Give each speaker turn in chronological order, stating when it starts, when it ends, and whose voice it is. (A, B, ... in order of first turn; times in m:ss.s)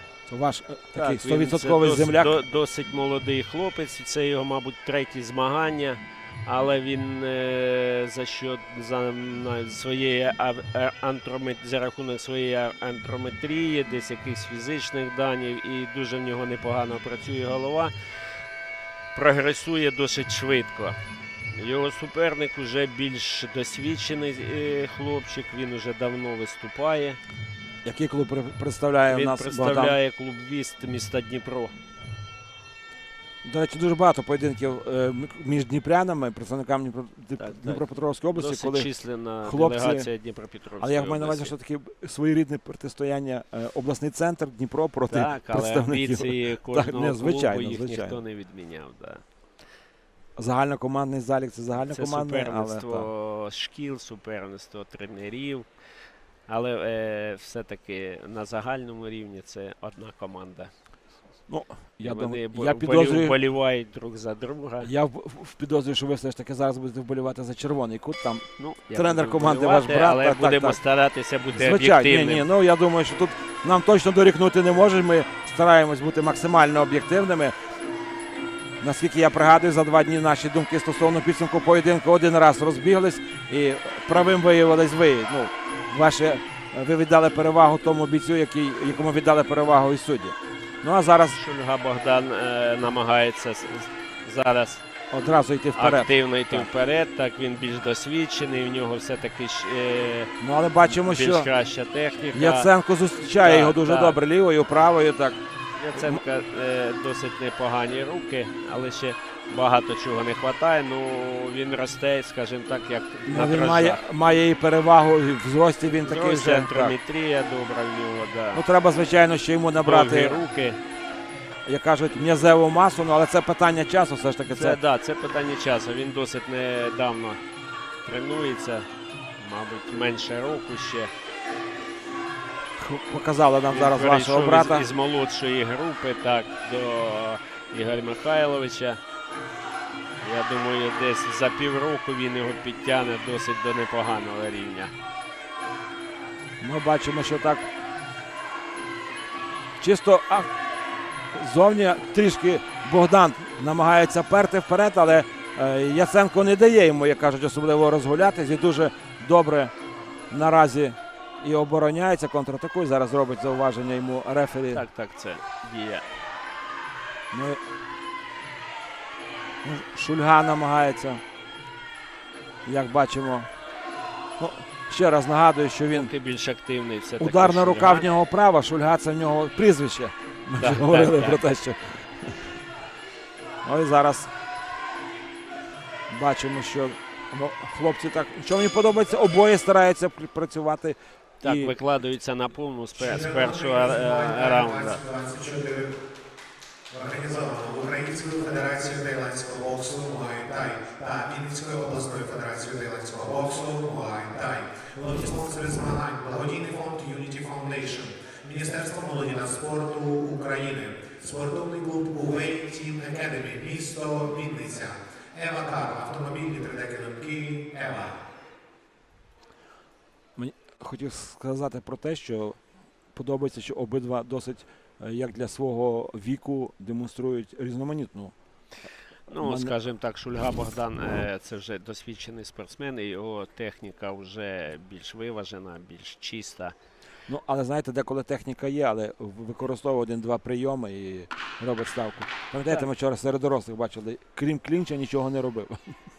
0:00.3-0:02.4 A
0:00.9-0:17.9 B
0:19.1-0:21.0 B
0:21.5-0:27.2 B
0:27.8-0:30.0 A
0:29.1-0:31.7 B
0:33.4-0:38.9 A
0:37.4-0:41.5 B
0:39.4-0:40.1 A
0:40.8-0:48.2 A
0:45.1-0:49.2 B
0:50.4-0:53.1 A
0:51.9-0:55.7 B
0:56.5-1:00.7 B
1:01.5-1:03.4 A
1:02.0-1:04.9 B
1:04.8-1:10.8 A
1:08.6-1:12.5 B
1:11.5-1:17.5 A
1:18.8-1:31.4 A
1:31.3-1:34.8 B
1:35.1-1:36.7 A
1:35.8-1:40.3 B
1:40.4-1:41.5 A
1:40.8-1:42.7 B
1:42.3-1:45.4 A
1:43.4-1:44.2 B
1:45.8-1:54.0 B
1:46.0-1:46.2 A
1:53.3-1:57.0 A
1:55.9-1:58.6 B
1:58.5-2:00.4 A
1:59.8-2:00.8 B
2:01.7-2:04.8 A
2:04.6-2:07.4 B
2:08.0-2:11.1 B
2:12.8-2:14.9 A
2:13.7-2:19.0 B
2:20.2-2:24.9 B
2:26.6-2:27.7 A
2:29.8-2:30.5 A
2:31.3-2:39.7 A
2:40.3-2:44.8 A
2:44.7-2:46.1 B
2:47.3-2:47.6 A
2:49.6-2:51.2 A
2:52.7-2:53.5 A
2:54.4-2:56.1 A
2:55.9-2:58.1 B
2:57.2-3:02.6 A
3:00.6-3:01.5 B
3:03.6-3:04.3 A
3:06.1-3:11.7 A
3:11.4-3:15.0 B
3:13.0-3:16.0 C
3:16.9-3:38.2 C
3:40.4-3:42.6 A
3:43.1-3:48.3 A
3:49.3-3:56.8 B
3:49.4-3:49.8 A
3:57.3-4:06.0 A